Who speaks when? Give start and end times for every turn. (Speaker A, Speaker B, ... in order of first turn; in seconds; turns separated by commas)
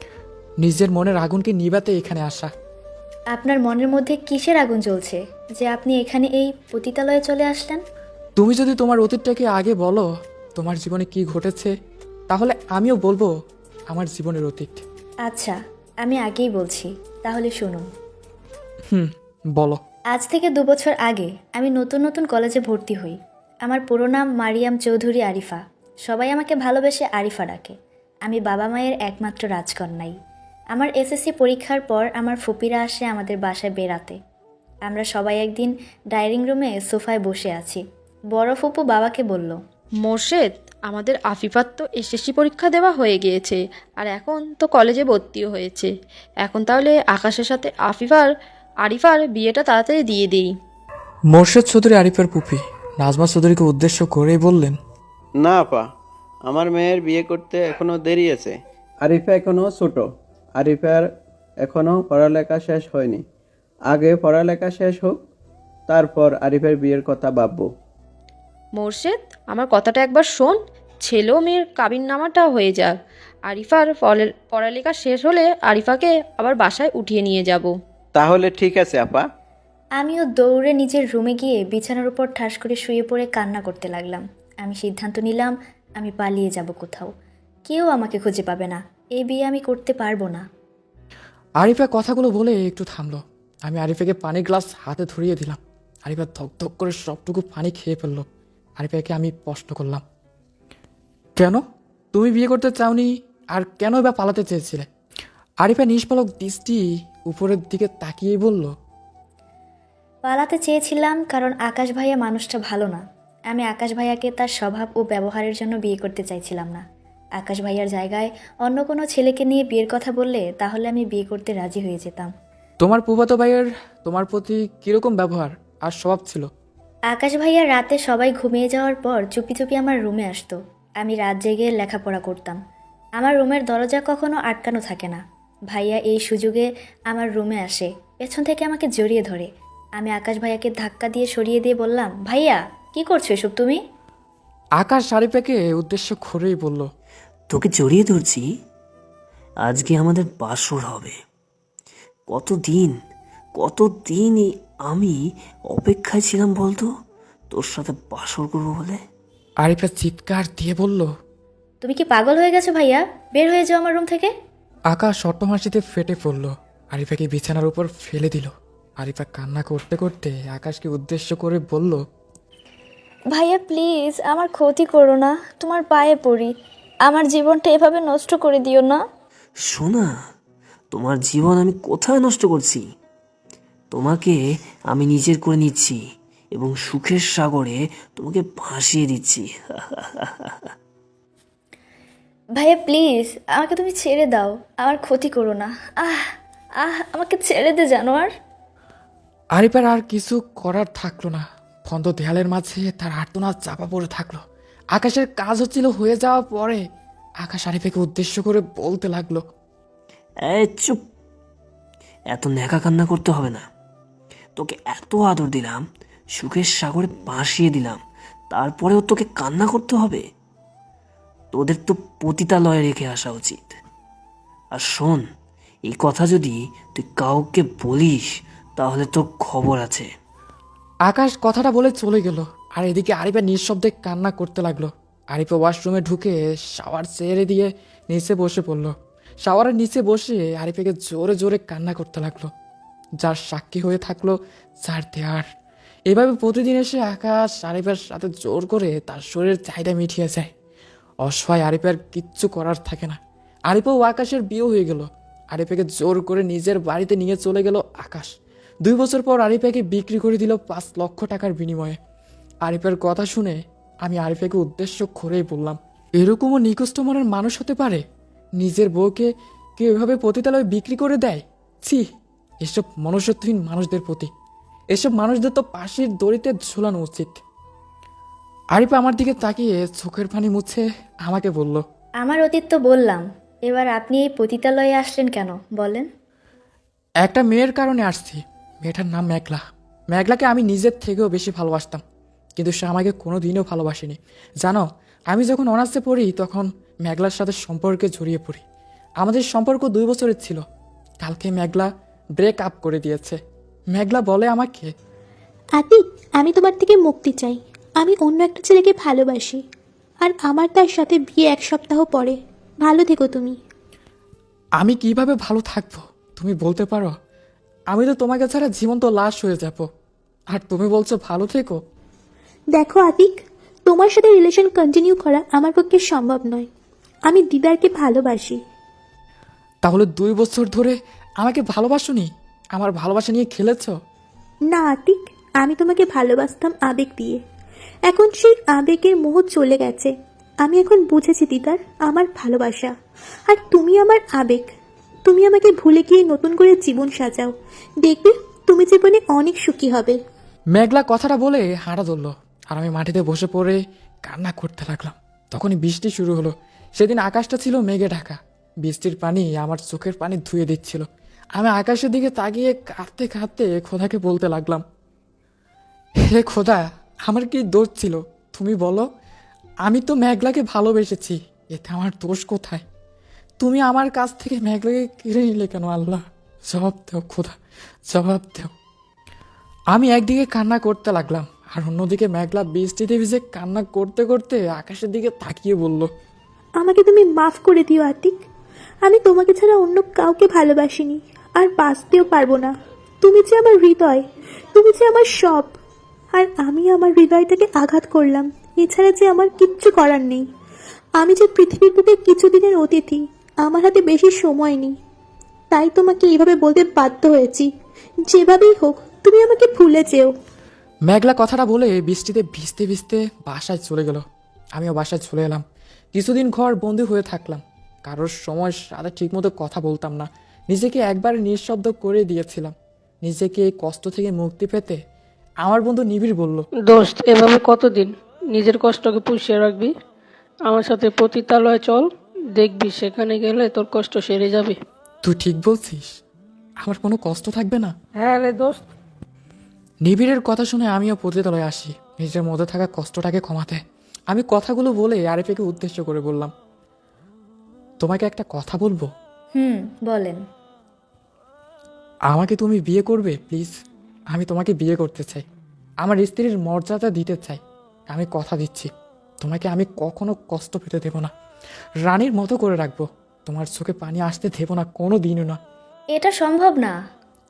Speaker A: 0.6-2.5, Speaker B: 3.3-7.8, Speaker A: 8.4-10.1, Speaker A: 10.6-11.7, Speaker A: 12.3-13.3, Speaker A: 13.9-14.8, Speaker B: 15.3-17.8, Speaker A: 18.9-19.8, Speaker B: 20.1-27.7, Speaker B: 28.3-30.1, Speaker B: 30.7-34.1, Speaker B: 34.9-37.8, Speaker B: 38.3-39.6, Speaker C: 40.0-45.9, Speaker D: 41.2-41.9, Speaker D: 44.1-44.5, Speaker C: 46.4-48.2, Speaker D: 46.5-48.2, Speaker C: 48.9-50.4, Speaker D: 48.9-49.4, Speaker A: 51.3-54.8, Speaker E: 55.4-55.9, Speaker E: 56.5-61.0, Speaker E: 61.6-63.2, Speaker E: 63.9-65.2, Speaker E: 65.9-67.7, Speaker C: 68.8-70.5, Speaker D: 69.0-69.3, Speaker C: 71.1-72.9, Speaker C: 73.5-77.7, Speaker D: 73.5-75.8, Speaker E: 78.1-79.2, Speaker B: 80.0-87.1, Speaker B: 87.7-90.4, Speaker A: 91.6-98.2, Speaker A: 98.8-100.0, Speaker A: 102.1-104.8, Speaker A: 105.6-108.7, Speaker B: 110.3-116.8, Speaker B: 117.4-122.3, Speaker A: 122.8-126.5, Speaker B: 127.1-132.6, Speaker B: 133.2-143.8, Speaker A: 144.8-146.8, Speaker F: 147.5-148.4, Speaker F: 149.7-151.1, Speaker F: 152.3-152.9, Speaker F: 153.6-155.1, Speaker F: 155.7-156.9, Speaker F: 157.5-159.0, Speaker A: 159.6-161.1, Speaker B: 161.8-164.3, Speaker A: 164.9-172.0, Speaker B: 173.3-176.5, Speaker B: 177.1-179.0, Speaker F: 179.7-180.1, Speaker F: 180.9-182.8, Speaker F: 183.9-184.3, Speaker F: 184.9-186.0, Speaker F: 186.6-189.4, Speaker B: 192.6-196.3, Speaker B: 196.8-198.3, Speaker A: 199.6-204.4, Speaker A: 204.9-206.8, Speaker A: 207.4-209.4, Speaker F: 210.4-211.0, Speaker F: 212.3-213.6, Speaker F: 214.6-215.8, Speaker F: 216.3-218.0, Speaker F: 218.5-220.2, Speaker F: 221.5-223.7, Speaker F: 224.7-225.2, Speaker F: 225.9-228.2, Speaker F: 228.8-230.1, Speaker A: 231.1-238.9, Speaker A: 239.4-242.5, Speaker A: 243.2-245.4, Speaker A: 246.1-250.5, Speaker A: 251.2-253.2, Speaker A: 253.7-258.3, Speaker A: 258.8-261.9, Speaker A: 262.6-268.0, Speaker A: 268.6-272.0, Speaker A: 272.6-274.3, Speaker A: 274.9-277.4, Speaker A: 278.7-281.8, Speaker B: 282.2-286.1, Speaker A: 287.2-289.6, Speaker A: 290.1-292.0, Speaker A: 292.6-298.6, Speaker A: 299.2-300.6, Speaker A: 301.2-303.4, Speaker A: 303.9-304.9, Speaker G: 305.8-309.6, Speaker G: 310.2-313.6, Speaker A: 314.8-317.1, Speaker A: 317.9-319.8, Speaker A: 320.5-321.8, Speaker G: 322.7-326.7, Speaker G: 327.3-328.6, Speaker A: 329.8-333.9, Speaker G: 334.7-337.4, Speaker G: 338.1-340.1, Speaker G: 340.6-342.9, Speaker G: 343.5-344.7, Speaker G: 345.2-350.2, Speaker A: 350.7-361.0, Speaker A: 361.6-364.8, Speaker A: 366.3-369.0, Speaker A: 369.9-372.8, Speaker A: 373.6-377.5, Speaker A: 378.1-378.7, Speaker A: 379.9-386.1, Speaker G: 386.8-388.4, Speaker G: 389.0-395.7, Speaker G: 396.3-400.4, Speaker G: 401.2-405.0, Speaker G: 405.7-407.7, Speaker G: 408.3-410.3, Speaker A: 411.1-414.2, Speaker A: 414.8-415.6, Speaker A: 416.1-422.7, Speaker A: 423.2-425.0, Speaker A: 425.6-426.7, Speaker D: 426.9-429.9, Speaker D: 430.6-434.8, Speaker A: 435.2-436.1, Speaker A: 436.8-437.9, Speaker D: 438.2-438.9, Speaker A: 440.0-443.8, Speaker A: 444.3-446.5, Speaker A: 448.0-449.1, Speaker B: 449.6-450.4, Speaker A: 452.3-453.7, Speaker A: 454.3-455.4, Speaker A: 456.0-457.6, Speaker A: 458.1-458.9, Speaker A: 459.4-461.3, Speaker A: 462.1-465.6, Speaker B: 466.1-466.9